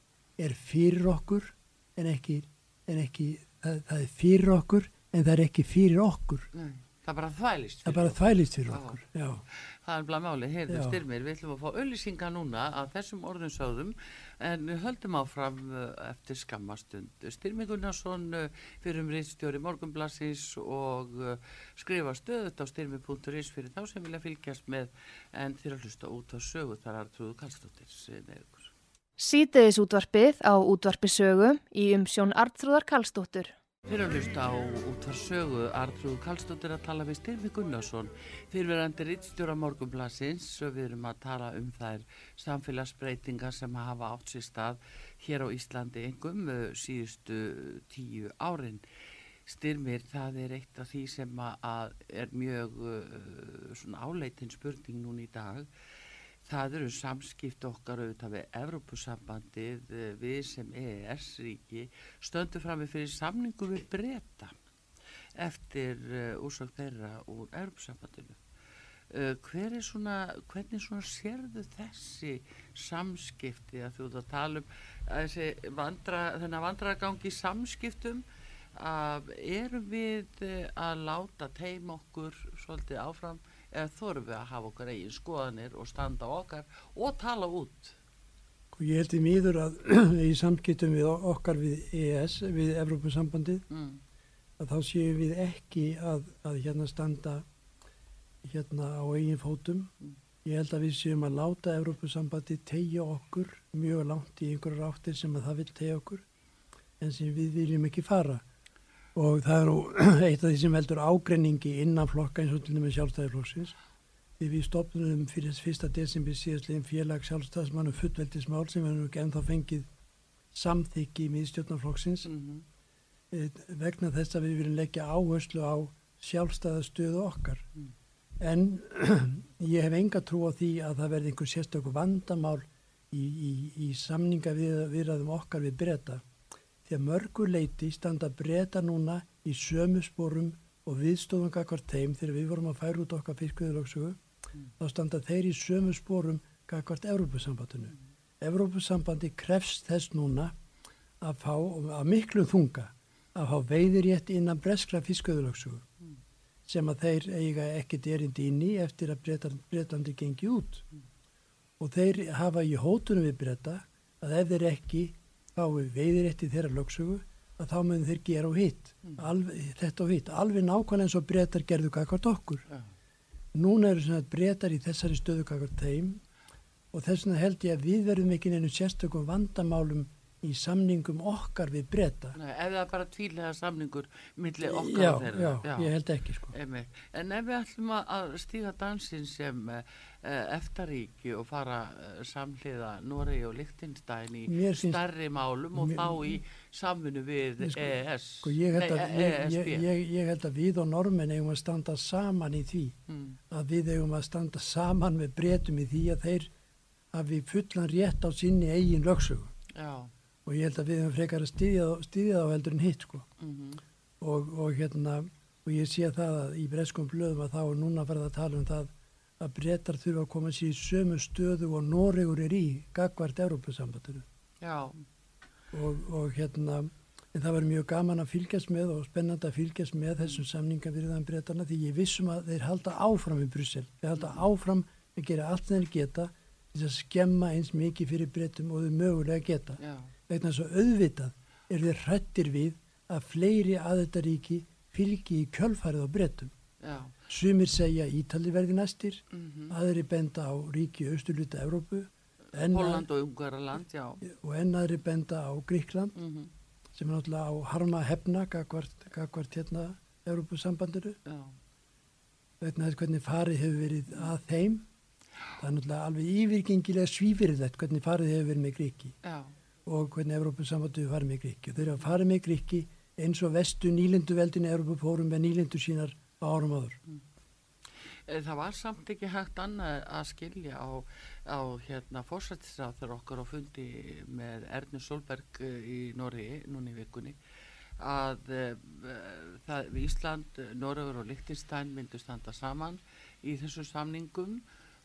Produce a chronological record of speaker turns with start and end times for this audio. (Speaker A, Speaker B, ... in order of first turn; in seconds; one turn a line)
Speaker A: 0.4-6.5
Speaker B: 6.5-9.0
Speaker A: 7.8-9.4
Speaker B: 9.5-28.7
Speaker A: 10.7-11.0
Speaker C: 29.2-33.5
Speaker B: 33.9-48.8
Speaker B: 49.5-55.7
Speaker B: 56.4-64.5
Speaker B: 65.3-68.4
Speaker B: 69.1-78.2
Speaker B: 78.7-88.0
Speaker A: 88.7-93.6
Speaker B: 93.7-94.0
Speaker A: 94.6-97.4
Speaker A: 98.4-99.9
Speaker A: 100.4-106.2
Speaker A: 107.0-108.4
Speaker A: 109.1-113.7
Speaker A: 114.4-119.9
Speaker A: 120.5-122.3
Speaker B: 122.2-122.6
Speaker A: 123.3-127.6
Speaker A: 128.4-136.2
Speaker A: 136.8-144.2
Speaker A: 144.8-150.5
Speaker A: 151.2-155.8
Speaker A: 156.7-160.8
Speaker A: 161.8-172.6
Speaker A: 173.5-176.2
Speaker A: 176.9-182.4
Speaker B: 182.3-185.9
Speaker A: 184.6-186.5
Speaker B: 186.5-199.8
Speaker A: 194.5-195.0
Speaker A: 195.7-196.4
Speaker A: 197.6-197.9
Speaker A: 198.4-202.9
Speaker B: 203.1-203.4
Speaker A: 203.5-206.5
Speaker A: 207.1-209.5
Speaker B: 209.7-210.1
Speaker A: 210.4-213.3
Speaker B: 213.4-213.8
Speaker A: 214.2-224.2
Speaker B: 224.6-225.0
Speaker A: 225.7-246.5
Speaker B: 234.2-234.4
Speaker B: 239.8-240.1
Speaker B: 246.8-247.2
Speaker A: 247.3-253.1
Speaker B: 249.3-249.7
Speaker B: 252.5-254.2
Speaker A: 254.2-256.1
Speaker B: 256.1-256.5
Speaker A: 256.9-261.2
Speaker B: 261.2-261.5
Speaker A: 262.6-264.9
Speaker A: 265.6-269.1
Speaker B: 269.2-269.5
Speaker A: 269.9-277.0
Speaker B: 271.8-272.1
Speaker B: 278.3-287.4
Speaker B: 288.0-294.6